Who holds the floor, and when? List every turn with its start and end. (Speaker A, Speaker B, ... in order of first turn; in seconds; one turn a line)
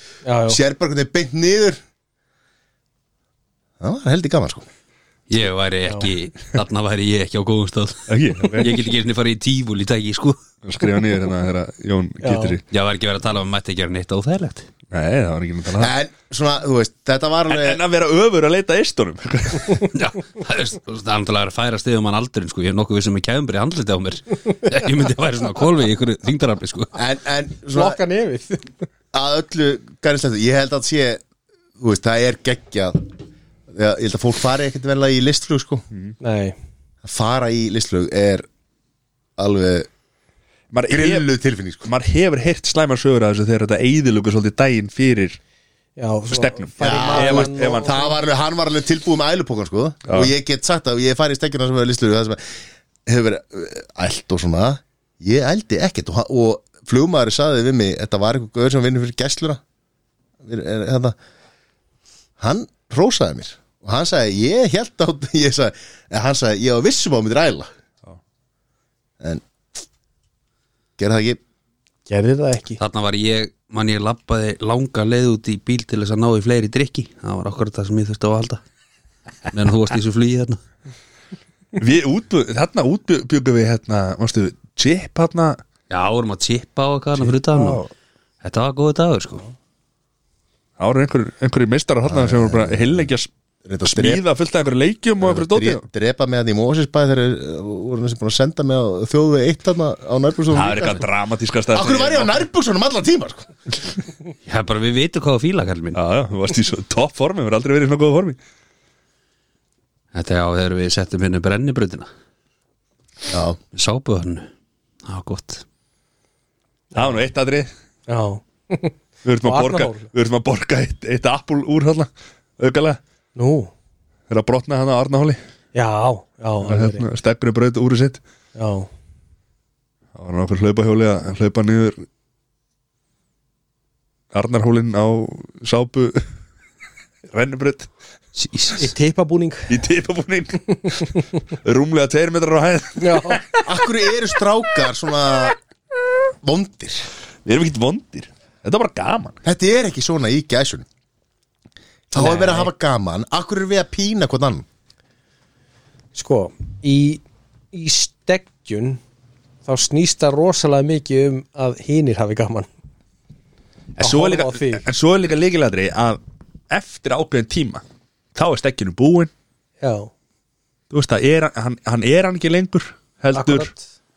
Speaker A: 0.2-0.6
Speaker B: 0.5-1.8
Speaker B: 3.8-4.7
Speaker C: 5.3-10.4
Speaker D: 8.1-8.8
Speaker D: 10.6-12.6
Speaker A: 12.2-12.6
Speaker C: 12.7-14.7
Speaker D: 14.9-15.9
Speaker B: 15.8-17.8
Speaker D: 17.5-20.0
Speaker C: 19.9-26.9
Speaker B: 26.9-28.0
Speaker A: 27.7-28.7
Speaker B: 29.1-31.2
Speaker B: 31.8-33.1
Speaker B: 33.7-35.8
Speaker A: 36.2-36.5
Speaker B: 37.0-38.5
Speaker B: 39.4-39.9
Speaker D: 40.7-41.2
Speaker B: 40.9-41.9
Speaker D: 41.8-45.4
Speaker A: 46.0-48.1
Speaker D: 46.3-48.0
Speaker B: 46.8-59.6
Speaker B: 60.4-61.1
Speaker B: 62.4-67.7
Speaker B: 71.0-71.4
Speaker A: 72.1-72.8
Speaker C: 72.8-78.6
Speaker C: 79.5-80.6
Speaker D: 81.8-85.6
Speaker C: 85.9-87.8
Speaker A: 87.6-87.8
Speaker C: 88.4-89.4
Speaker D: 90.8-93.3
Speaker B: 92.0-93.0
Speaker B: 93.6-94.2
Speaker D: 93.9-95.8
Speaker B: 95.2-101.0
Speaker D: 100.5-102.4
Speaker B: 101.7-103.5
Speaker C: 104.5-106.0
Speaker D: 105.9-108.4
Speaker C: 110.1-112.1
Speaker B: 113.3-113.6
Speaker C: 113.7-114.5
Speaker C: 115.0-115.6
Speaker D: 116.9-117.7
Speaker A: 118.1-120.1
Speaker D: 119.2-123.0
Speaker A: 123.3-123.7
Speaker D: 124.3-125.4
Speaker A: 125.7-127.0
Speaker D: 126.6-128.2
Speaker A: 128.6-128.9
Speaker D: 130.1-132.0
Speaker D: 134.3-136.2
Speaker D: 137.3-137.9
Speaker C: 138.3-138.8
Speaker A: 138.8-139.7
Speaker D: 139.7-143.6
Speaker A: 143.0-143.6
Speaker B: 143.6-145.6
Speaker B: 146.4-147.1
Speaker D: 147.4-149.4
Speaker B: 149.4-150.8
Speaker B: 152.1-154.7
Speaker A: 152.1-152.7
Speaker A: 156.1-159.0
Speaker A: 159.6-162.7
Speaker D: 164.0-167.8
Speaker A: 164.0-164.8
Speaker D: 168.3-169.3
Speaker A: 169.8-170.1
Speaker D: 170.9-173.7
Speaker A: 173.3-173.8